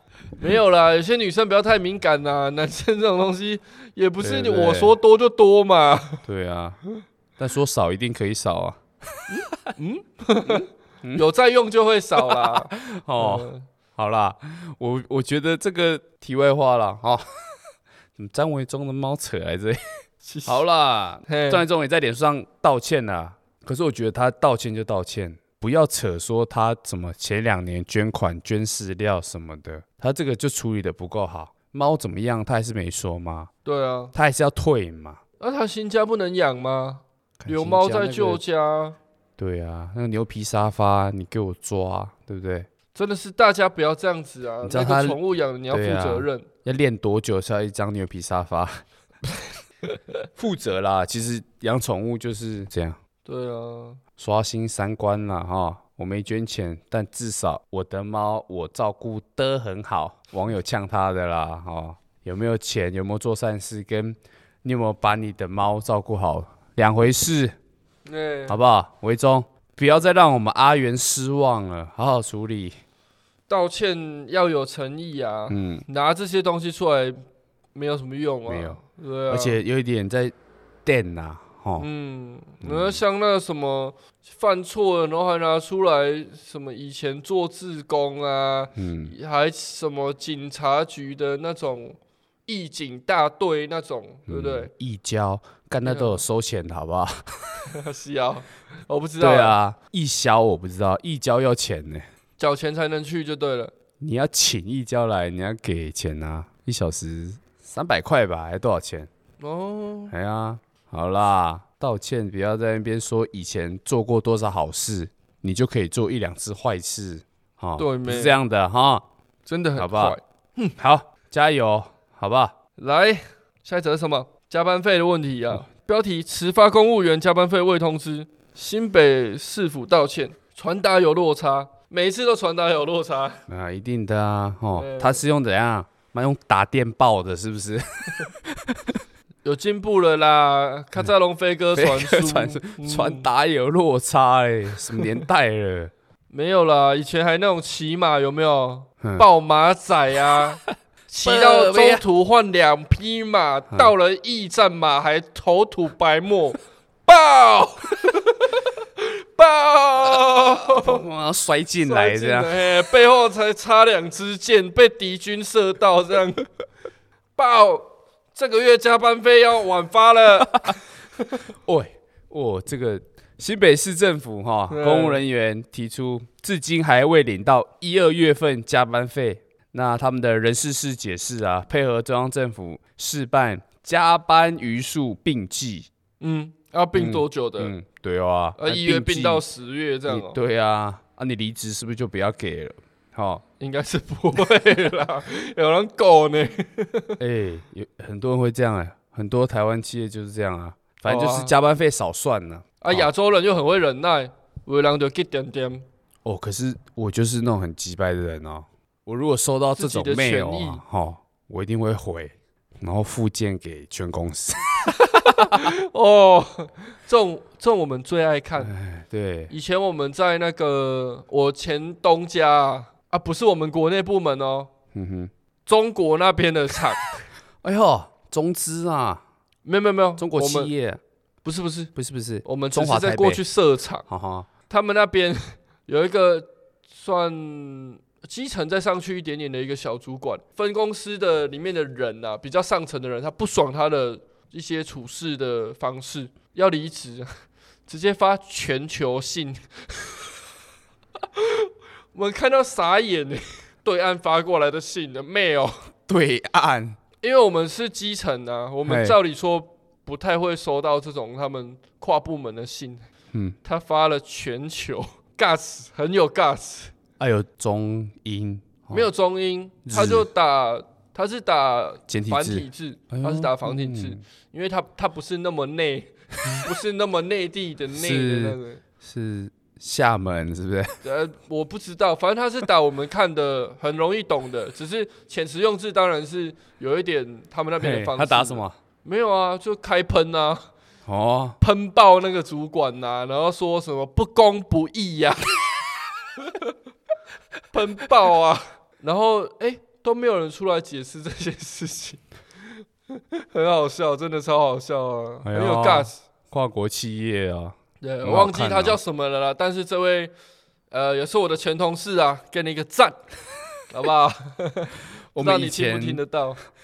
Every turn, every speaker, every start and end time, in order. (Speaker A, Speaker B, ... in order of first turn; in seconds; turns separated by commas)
Speaker A: 0.4-6.2, Speaker B: 4.2-5.0, Speaker B: 6.2-6.8, Speaker B: 7.4-8.8, Speaker A: 9.3-13.7, Speaker B: 10.4-11.2, Speaker B: 12.2-17.2, Speaker B: 18.1-19.8, Speaker A: 20.2-20.6, Speaker B: 20.4-33.5, Speaker A: 21.3-21.6, Speaker A: 33.6-34.1, Speaker B: 34.1-35.2, Speaker A: 35.4-39.0, Speaker B: 37.4-38.4, Speaker B: 39.4-42.7, Speaker A: 42.9-46.5, Speaker B: 44.6-45.2, Speaker B: 45.7-48.8, Speaker B: 50.4-53.0, Speaker A: 53.2-54.0, Speaker B: 54.2-67.5, Speaker A: 68.0-68.6, Speaker B: 68.5-72.7, Speaker A: 73.5-77.2, Speaker B: 75.5-75.8, Speaker A: 77.7-79.6, Speaker B: 78.5-78.8, Speaker B: 79.3-80.3, Speaker B: 80.8-81.9, Speaker A: 81.8-94.7, Speaker B: 82.6-83.0, Speaker B: 88.7-89.1, Speaker B: 94.3-97.7, Speaker A: 95.8-96.2, Speaker A: 97.7-99.6, Speaker B: 99.2-102.0, Speaker A: 102.4-103.7, Speaker B: 104.0-109.1, Speaker A: 109.4-110.1, Speaker B: 110.1-119.0, Speaker A: 117.8-118.4, Speaker A: 119.5-120.8, Speaker B: 119.8-120.2, Speaker B: 120.8-122.5, Speaker A: 122.8-133.4, Speaker B: 133.5-139.0, Speaker A: 134.8-135.2, Speaker A: 139.4-143.3, Speaker B: 141.7-145.9, Speaker A: 146.3-161.0, Speaker B: 151.2-152.0, Speaker B: 160.7-162.7, Speaker A: 161.8-166.5, Speaker A: 167.4-171.4, Speaker B: 171.6-185.9, Speaker A: 174.7-175.2, Speaker A: 186.2-187.7, Speaker B: 186.9-189.4, Speaker A: 188.6-190.4, Speaker B: 190.1-193.4, Speaker A: 193.6-197.2, Speaker B: 197.2-203.1, Speaker A: 201.1-201.5, Speaker A: 202.8-205.8, Speaker B: 206.2-215.6, Speaker A: 209.8-210.8, Speaker A: 214.9-218.7, Speaker B: 218.6-219.5, Speaker A: 219.5-224.7, Speaker B: 224.9-225.3, Speaker A: 225.7-227.2, Speaker B: 227.6-229.2, Speaker A: 229.6-230.7, Speaker B: 230.2-231.0, Speaker A: 231.4-231.9, Speaker B: 231.9-233.4, Speaker A: 232.4-234.1, Speaker B: 234.1-234.5, Speaker A: 234.7-247.3, Speaker A: 247.9-250.2, Speaker A: 251.3-255.8, Speaker B: 256.1-257.0, Speaker A: 257.2-263.1, Speaker B: 258.9-259.2, Speaker A: 263.6-266.9, Speaker B: 267.2-269.1, Speaker A: 268.9-278.8, Speaker B: 269.9-270.3, Speaker B: 272.1-274.2, Speaker B: 277.9-280.9, Speaker A: 281.0-290.6, Speaker B: 287.8-288.8, Speaker B: 291.1-291.6, Speaker A: 291.6-295.6, Speaker A: 297.7-302.2, Speaker A: 303.1-306.2, Speaker B: 305.4-309.0, Speaker A: 308.0-310.3, Speaker A: 310.9-313.2, Speaker A: 313.9-316.6, Speaker B: 315.3-316.2